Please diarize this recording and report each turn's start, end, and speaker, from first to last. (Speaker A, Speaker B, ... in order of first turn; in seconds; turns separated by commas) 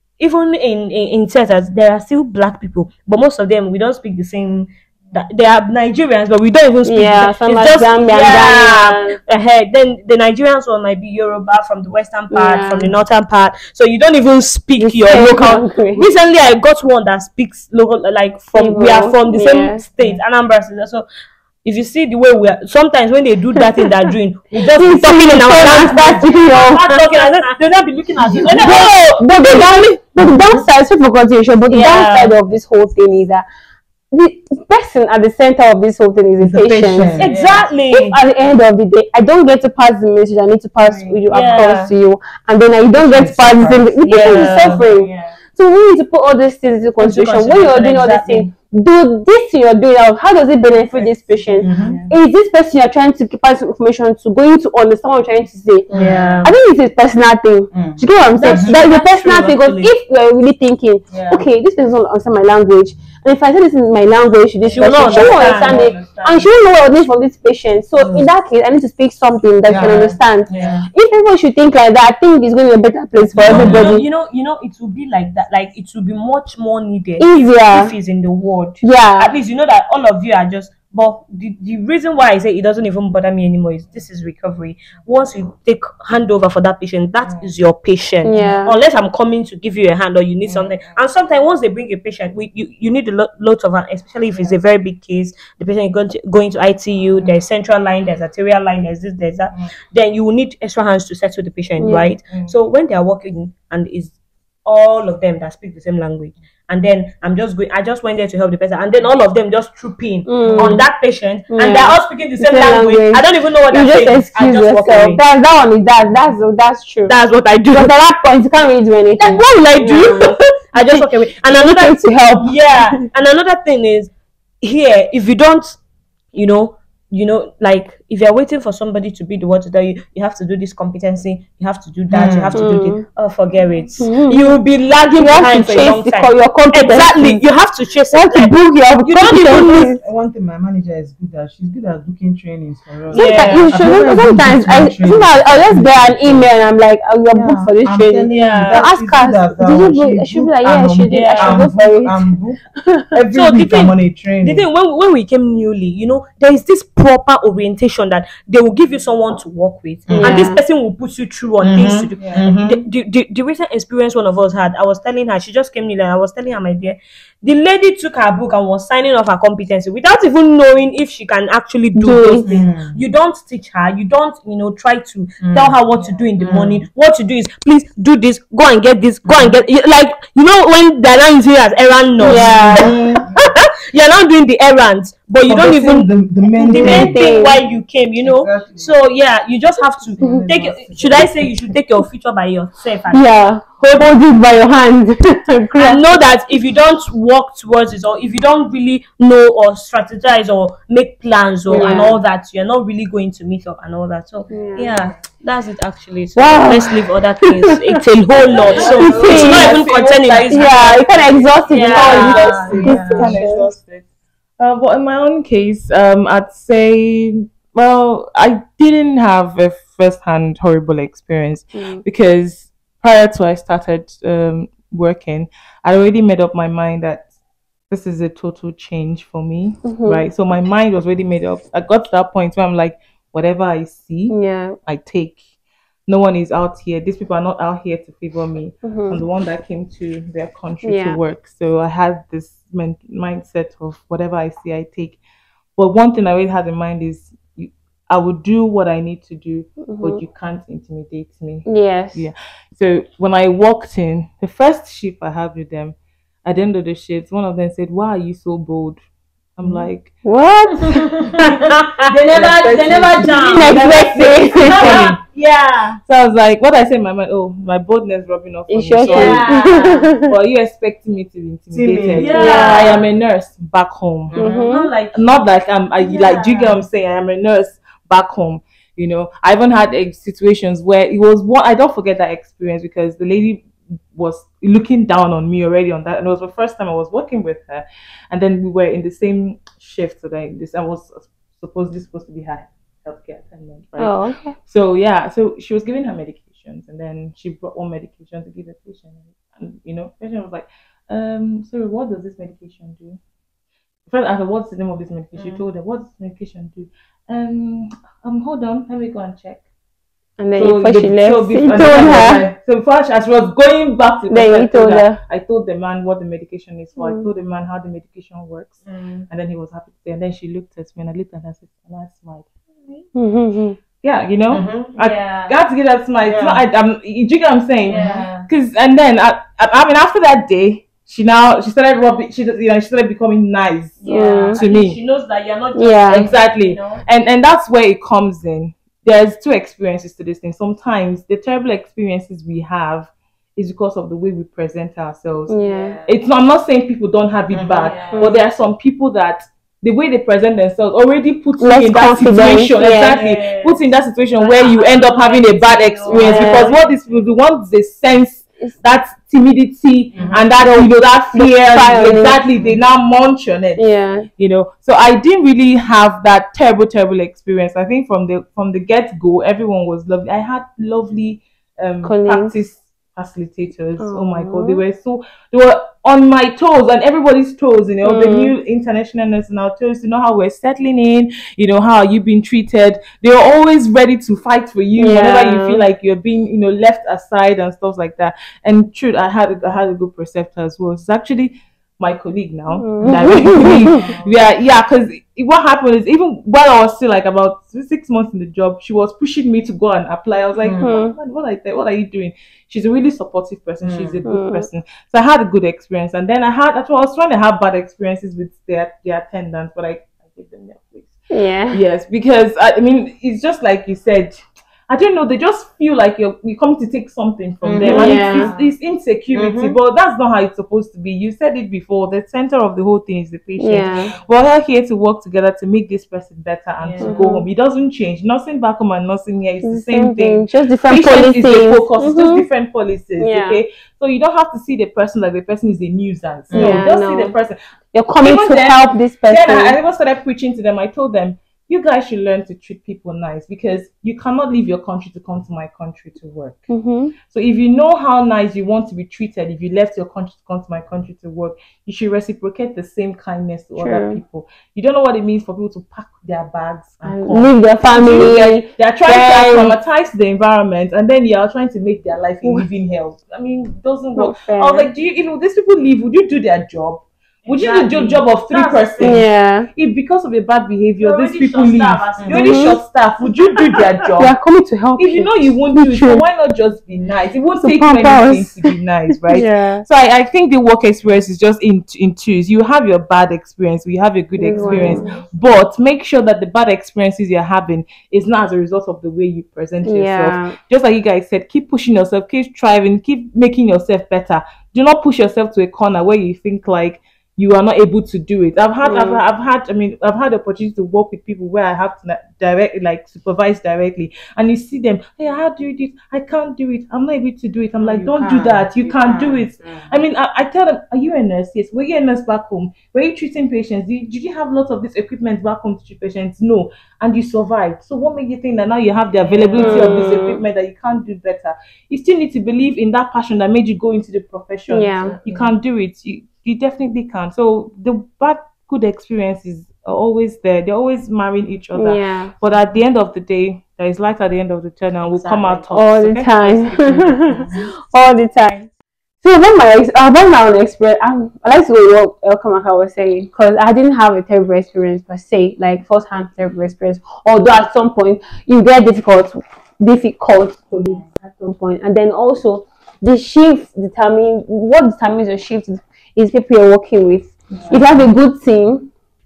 Speaker A: 0.2-21.1, Speaker B: 6.8-9.2, Speaker B: 12.3-12.9, Speaker B: 14.8-16.1, Speaker B: 18.5-19.8, Speaker A: 21.6-29.9, Speaker B: 24.6-27.3, Speaker B: 28.4-33.4, Speaker A: 31.7-32.3, Speaker B: 34.1-37.1, Speaker C: 36.4-37.3, Speaker A: 37.2-38.2, Speaker D: 37.2-37.7, Speaker B: 37.9-55.9, Speaker D: 40.8-41.6, Speaker A: 41.3-41.9, Speaker C: 42.9-44.0, Speaker A: 44.0-44.9, Speaker D: 44.1-45.4, Speaker A: 47.0-48.5, Speaker D: 50.9-52.1, Speaker C: 51.6-52.0, Speaker D: 55.9-56.5, Speaker C: 55.9-56.3, Speaker A: 56.0-56.5, Speaker B: 56.4-74.0, Speaker C: 57.7-58.7, Speaker A: 58.3-59.9, Speaker D: 61.1-61.4, Speaker A: 64.7-65.8, Speaker D: 64.8-66.5, Speaker C: 68.0-68.3, Speaker C: 69.7-70.7, Speaker D: 69.7-70.8, Speaker D: 73.3-73.9, Speaker C: 73.4-73.9, Speaker A: 73.4-115.2, Speaker B: 77.2-77.9, Speaker B: 78.8-79.3, Speaker D: 87.2-87.5, Speaker B: 88.2-88.7, Speaker D: 90.4-91.0, Speaker B: 101.8-102.1, Speaker D: 102.3-102.5, Speaker B: 110.2-110.8, Speaker D: 110.5-110.7, Speaker B: 111.5-117.1, Speaker A: 117.1-117.9, Speaker B: 117.7-123.0, Speaker A: 119.2-124.1, Speaker A: 124.6-125.8, Speaker A: 126.3-139.9, Speaker C: 132.1-132.6, Speaker B: 132.5-133.0, Speaker D: 133.5-133.9, Speaker B: 134.0-134.4, Speaker B: 135.2-137.4, Speaker B: 138.1-140.0, Speaker C: 139.4-146.5, Speaker A: 143.1-143.7, Speaker B: 143.1-152.3, Speaker C: 147.3-152.6, Speaker A: 148.3-148.9, Speaker A: 151.1-151.7, Speaker B: 152.8-153.1, Speaker C: 153.1-154.6, Speaker A: 153.3-193.2, Speaker C: 160.1-160.5, Speaker B: 160.2-160.6, Speaker C: 161.6-162.8, Speaker D: 162.2-162.5, Speaker B: 171.9-172.5, Speaker C: 172.4-173.0, Speaker C: 175.4-175.8, Speaker C: 176.4-176.8, Speaker C: 179.2-179.6, Speaker B: 182.2-182.9, Speaker C: 182.2-183.2, Speaker C: 185.4-187.2, Speaker B: 186.6-187.6, Speaker C: 188.2-188.9, Speaker C: 190.1-191.6, Speaker B: 193.1-196.2, Speaker A: 195.8-211.1, Speaker B: 201.7-202.2, Speaker D: 201.7-202.0, Speaker B: 204.5-204.9, Speaker B: 206.3-207.8, Speaker D: 208.5-214.0, Speaker B: 208.6-209.8, Speaker B: 210.5-213.7, Speaker A: 211.7-213.3, Speaker C: 212.0-213.4, Speaker D: 214.6-227.3, Speaker B: 221.7-222.0, Speaker D: 227.9-235.4, Speaker B: 229.8-230.2, Speaker B: 234.3-234.8, Speaker D: 236.1-245.2, Speaker B: 238.8-239.2, Speaker B: 240.8-241.2, Speaker D: 245.8-259.0, Speaker B: 249.8-250.2, Speaker B: 251.7-252.2, Speaker D: 259.6-260.1, Speaker B: 260.2-261.1, Speaker A: 260.9-266.0, Speaker D: 262.1-265.2, Speaker C: 262.3-263.5, Speaker B: 263.2-265.0, Speaker C: 264.8-265.0, Speaker D: 266.1-274.4, Speaker B: 268.7-270.3, Speaker A: 269.0-270.1, Speaker C: 271.7-272.4, Speaker A: 272.1-273.1, Speaker B: 272.3-273.0, Speaker C: 274.3-274.7, Speaker B: 274.3-274.9, Speaker A: 274.6-275.2, Speaker D: 275.1-303.2, Speaker A: 276.0-276.8, Speaker B: 294.0-294.5, Speaker D: 304.1-309.6, Speaker A: 305.4-305.6, Speaker B: 310.4-312.4, Speaker D: 310.6-323.1, Speaker C: 311.7-312.0, Speaker B: 314.3-315.2, Speaker B: 317.0-317.3, Speaker B: 323.1-323.8, Speaker D: 324.0-335.0, Speaker C: 324.5-324.9, Speaker A: 324.9-325.5, Speaker C: 326.2-326.6, Speaker A: 327.8-328.5, Speaker C: 327.9-328.2, Speaker A: 334.0-337.0, Speaker B: 334.1-334.6, Speaker B: 335.7-336.3, Speaker D: 336.1-345.5, Speaker B: 345.5-345.9, Speaker A: 345.6-346.2, Speaker D: 346.1-363.8, Speaker C: 347.5-347.9, Speaker A: 347.7-348.4, Speaker B: 348.1-348.4, Speaker B: 351.6-353.2, Speaker A: 352.7-353.8, Speaker A: 354.4-356.9, Speaker B: 356.1-356.7, Speaker C: 360.1-360.4, Speaker B: 360.6-362.4, Speaker B: 363.8-364.3, Speaker D: 364.4-411.1, Speaker B: 372.0-372.6, Speaker B: 374.0-374.8, Speaker B: 378.0-378.5, Speaker B: 385.0-385.8, Speaker B: 392.8-394.0, Speaker C: 393.0-394.1, Speaker C: 400.6-400.9, Speaker B: 400.8-401.1, Speaker C: 403.8-404.2, Speaker B: 404.2-404.7, Speaker B: 411.3-411.8, Speaker D: 411.7-437.6, Speaker C: 417.6-418.2, Speaker A: 417.8-418.7, Speaker B: 417.8-418.5, Speaker C: 419.3-419.8, Speaker B: 423.6-424.1, Speaker A: 426.8-427.2, Speaker B: 427.0-427.5, Speaker B: 429.6-432.4, Speaker B: 433.2-433.6, Speaker C: 436.5-436.8, Speaker B: 436.5-437.3, Speaker B: 437.9-439.8, Speaker D: 438.2-446.6, Speaker B: 446.7-447.1, Speaker D: 447.2-474.3, Speaker B: 453.8-454.2, Speaker B: 457.0-459.8, Speaker B: 464.1-464.9, Speaker A: 467.4-469.2, Speaker B: 469.0-469.7, Speaker A: 471.0-472.8, Speaker B: 472.3-472.8, Speaker B: 474.2-476.2, Speaker D: 475.0-537.6, Speaker B: 477.6-478.7, Speaker B: 479.3-479.8, Speaker B: 484.4-485.2, Speaker C: 484.6-485.0, Speaker B: 489.8-490.5, Speaker B: 498.8-499.2, Speaker C: 507.8-510.0, Speaker C: 519.3-519.8, Speaker B: 519.6-520.4, Speaker B: 524.7-525.2, Speaker B: 531.8-532.3, Speaker C: 535.1-535.7, Speaker B: 535.7-538.7, Speaker B: 539.2-558.9, Speaker D: 557.5-558.0